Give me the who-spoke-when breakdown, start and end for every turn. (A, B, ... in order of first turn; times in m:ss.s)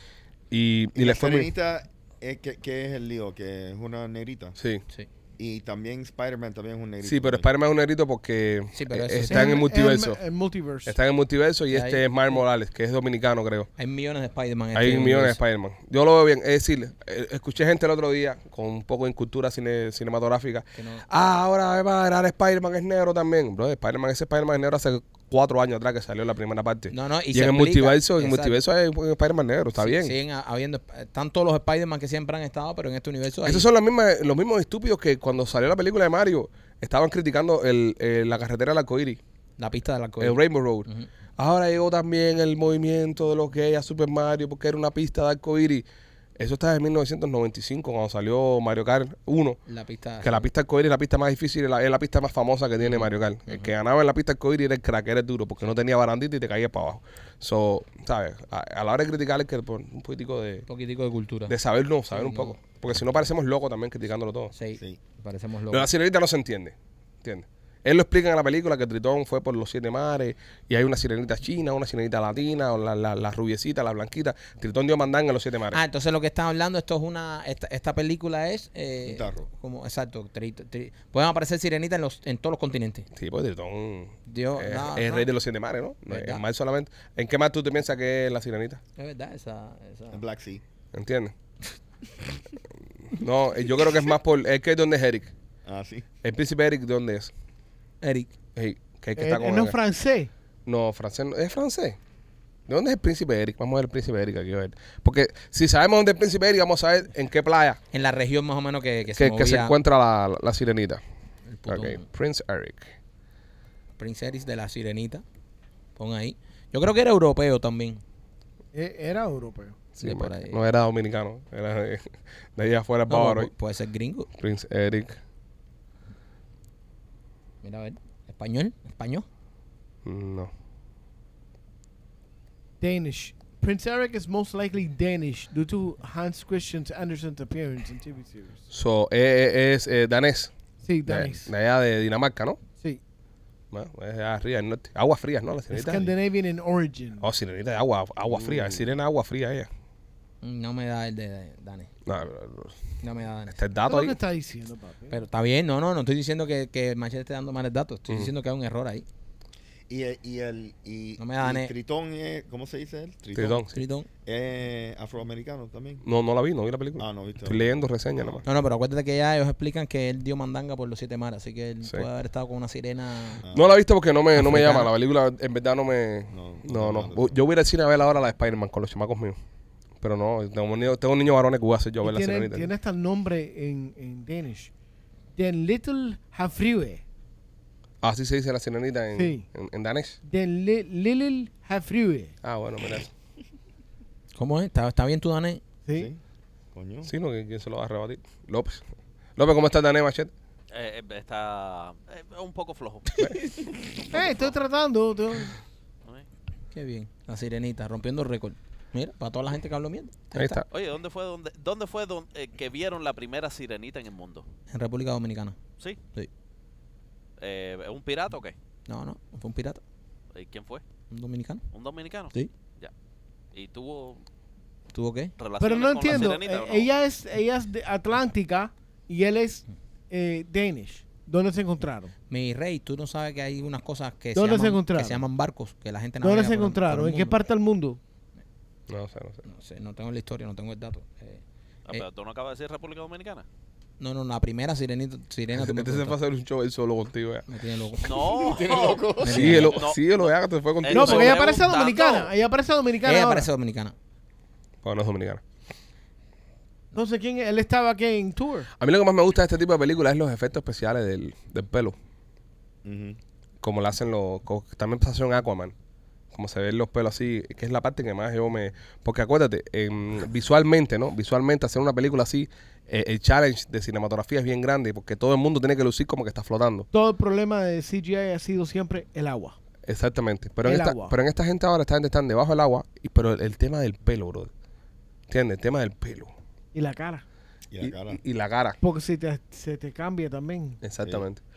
0:00.5-0:01.5 A
0:00.9-0:04.6 B
0:04.6-0:04.8 A
0:05.4-0:07.4 B
0:07.0-0:10.2 A
0:08.7-0:09.6 C
0:09.3-0:11.0 D
0:10.8-0:13.7 A
0:11.7-0:12.4 C
0:13.8-0:15.4 C
0:14.7-0:30.1 A
0:20.8-0:21.0 C
0:26.9-0:28.6 C
0:29.8-0:33.6 C
0:33.4-0:39.2 A
0:39.6-0:41.1 C
0:40.2-0:45.8 A
0:46.4-0:49.6 A
0:49.7-0:50.5 C
0:50.2-1:00.6 A
0:52.8-0:53.7 C
1:00.7-1:01.6 C
1:01.5-1:04.5 A
1:02.1-1:02.6 C
1:04.5-1:05.9 C
1:05.7-1:15.8 A
1:15.7-1:23.0 C
1:19.0-1:19.5 B
1:23.1-1:28.8 A
1:24.3-1:25.3 C
1:26.1-1:26.4 C
1:29.0-1:30.2 C
1:30.1-1:30.6 B
1:30.9-1:31.3 A
1:33.1-1:35.3 A
1:35.6-1:36.1 B
1:36.2-1:37.3 A
1:38.0-1:38.3 C
1:38.6-1:39.8 A
1:39.2-1:40.3 D
1:40.6-1:42.0 A
1:42.7-1:47.8 A
1:47.9-1:49.7 C
1:49.1-1:51.0 A
1:51.5-1:52.0 C
1:51.7-1:52.9 A
1:54.0-1:55.2 C
1:56.0-1:58.0 C
1:58.7-1:59.8 D
2:00.0-2:03.5 A
2:00.0-2:00.6 C
2:03.1-2:04.3 C
2:04.4-2:05.2 A
2:07.6-2:09.2 C
2:10.0-2:10.5 A
2:12.8-2:18.6 D
2:18.7-2:20.5 A
2:20.8-2:21.5 D
2:21.0-2:22.6 A
2:23.7-2:26.1 A
2:25.7-2:27.3 D
2:27.2-2:29.7 A
2:28.2-2:28.9 B
2:30.4-2:31.9 C
2:32.0-2:32.8 A
2:33.0-2:33.6 C
2:33.5-2:34.2 A
2:33.9-2:35.2 D
2:35.1-2:39.0 C
2:39.9-2:43.6 B
2:41.2-2:41.7 C
2:43.3-2:43.8 A
2:43.7-2:44.1 C
2:44.2-2:46.0 B
2:46.0-2:48.4 A
2:47.0-2:48.4 B
2:48.4-2:53.4 C
2:53.4-2:53.7 B
2:53.5-2:59.4 A
2:54.3-2:54.9 C
2:56.3-2:57.3 B
3:00.0-3:02.7 A
3:02.0-3:04.7 D
3:05.4-3:07.0 D
3:08.0-3:10.2 A
3:09.1-3:09.4 D
3:10.2-3:12.3 D
3:12.4-3:13.1 A
3:14.3-3:15.6 C
3:15.8-3:16.1 D
3:15.9-3:16.2 B
3:16.7-3:17.1 B
3:17.0-3:18.8 A
3:19.4-3:20.3 A
3:20.7-3:23.1 E
3:23.2-3:23.7 C
3:24.1-3:25.6 D
3:24.1-3:24.5 E
3:26.7-3:30.6 C
3:30.3-3:30.6 A
3:30.7-3:34.4 E
3:34.7-3:35.6 C
3:37.4-3:38.5 E
3:38.9-3:39.8 C
3:40.3-3:40.8 E
3:41.1-3:41.6 C
3:41.7-3:42.9 E
3:43.5-3:44.2 E
3:44.9-3:45.3 C
3:45.4-3:46.9 E
3:45.6-3:52.1 D
3:52.3-3:57.3 C
3:54.3-3:55.2 D
3:56.2-3:58.0 D
3:58.9-3:59.4 A
3:59.4-4:02.0 C
4:01.9-4:03.4 E
4:04.0-4:06.2 C
4:05.5-4:07.5 A
4:07.5-4:08.2 C
4:08.0-4:12.3 E
4:08.1-4:09.6 B
4:09.2-4:09.8 C
4:09.2-4:11.5 A
4:10.9-4:13.5 D
4:13.0-4:13.9 C
4:14.8-4:15.4 A
4:16.9-4:18.7 D
4:18.8-4:21.9 A
4:22.8-4:23.2 B
4:23.6-4:25.7 A
4:26.3-4:36.9 A
4:36.9-4:39.6 D
4:39.8-4:44.5 A
4:40.6-4:41.2 D
4:45.3-4:46.3 A
4:46.7-4:47.2 D
4:47.7-4:48.2 B
4:47.8-4:48.8 A
4:48.8-4:50.8 D
4:50.8-4:51.4 A